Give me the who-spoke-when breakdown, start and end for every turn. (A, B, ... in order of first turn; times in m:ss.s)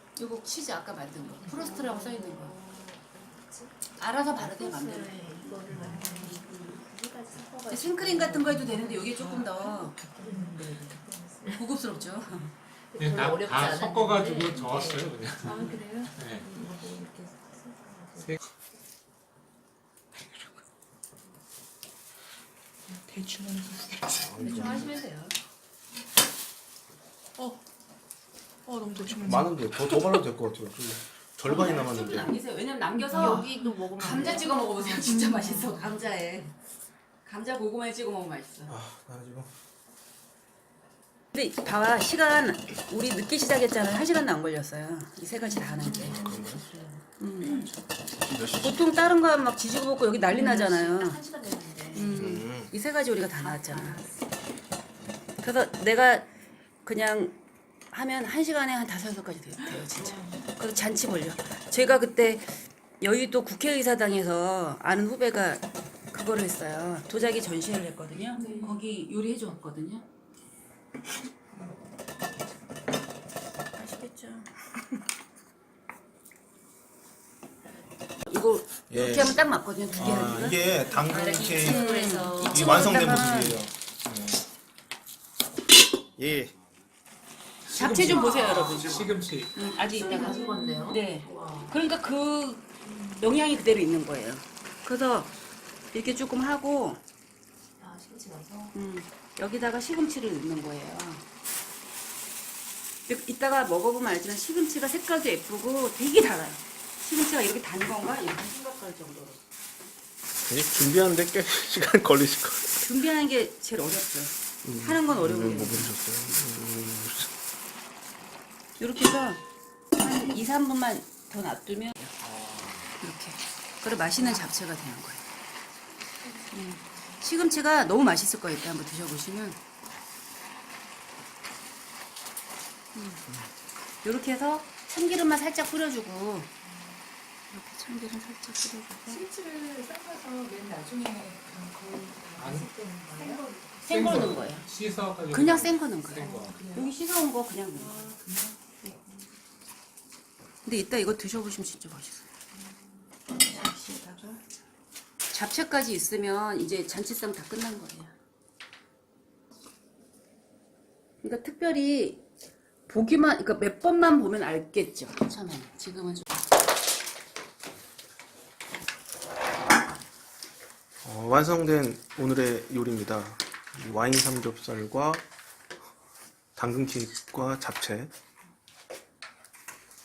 0:00.2-0:02.6 A
0:01.4-0:03.7 B
0:01.7-0:02.0 C
0:04.0-0:06.8 A
0:04.4-0:08.6 B
0:05.7-0:06.1 D
0:05.7-0:06.7 C
0:07.7-0:10.0 A
0:08.4-0:11.5 C
0:10.2-0:11.6 B
0:11.5-0:12.5 A
0:12.9-0:15.9 B
0:13.0-0:16.6 D
0:15.4-0:18.4 C
0:16.6-0:17.0 B
0:22.9-0:24.9 C
0:24.2-0:24.9 E
0:24.4-0:25.4 A
0:28.7-0:30.1 C
0:29.2-0:32.4 E
0:31.4-0:36.5 A
0:33.1-0:34.4 C
0:33.1-0:35.7 B
0:35.0-0:35.5 C
0:37.2-0:38.8 A
0:38.7-0:39.5 E
0:41.3-0:46.2 A
0:45.4-0:47.7 B
0:46.0-0:46.6 E
0:47.2-0:47.7 A
0:48.3-0:48.8 E
0:48.6-0:51.2 A
0:50.3-0:52.2 B
0:51.9-0:54.0 A
0:52.1-0:52.7 E
0:53.4-0:54.1 B
0:55.4-0:56.3 A
0:56.8-0:57.4 A
0:57.9-1:10.0 A
0:59.8-1:00.4 B
1:08.4-1:08.8 C
1:08.4-1:08.7 B
1:13.8-1:14.5 A
1:18.2-1:20.6 A
1:18.9-1:21.9 E
1:20.0-1:23.0 B
1:21.4-1:23.7 A
1:22.4-1:24.4 E
1:26.2-1:26.5 E
1:27.7-1:35.3 A
1:27.7-1:29.5 D
1:28.0-1:28.9 B
1:29.8-1:31.8 B
1:30.0-1:31.0 C
1:32.9-1:33.2 B
1:35.9-1:37.0 A
1:37.8-1:38.7 B
1:38.7-1:41.2 A
1:43.1-1:49.4 A
1:50.5-1:52.8 E
1:52.8-1:56.0 A
1:54.6-1:57.3 E
1:58.8-1:59.4 A
2:00.0-2:02.1 A
2:03.0-2:05.2 A
2:06.2-2:07.2 C
2:06.5-2:09.6 A
2:13.0-2:13.2 A
2:14.0-2:16.5 A
2:17.5-2:19.2 A
2:19.1-2:24.5 C
2:22.4-2:22.7 D
2:23.8-2:24.7 A
2:23.9-2:26.6 D
2:25.3-2:28.2 A
2:26.2-2:26.9 C
2:27.8-2:28.6 C
2:30.6-2:32.3 A
2:33.5-2:34.4 A
2:35.3-2:38.1 A
2:41.2-2:42.2 A
2:42.9-2:46.4 A
2:51.0-2:55.2 E
2:56.6-2:58.1 E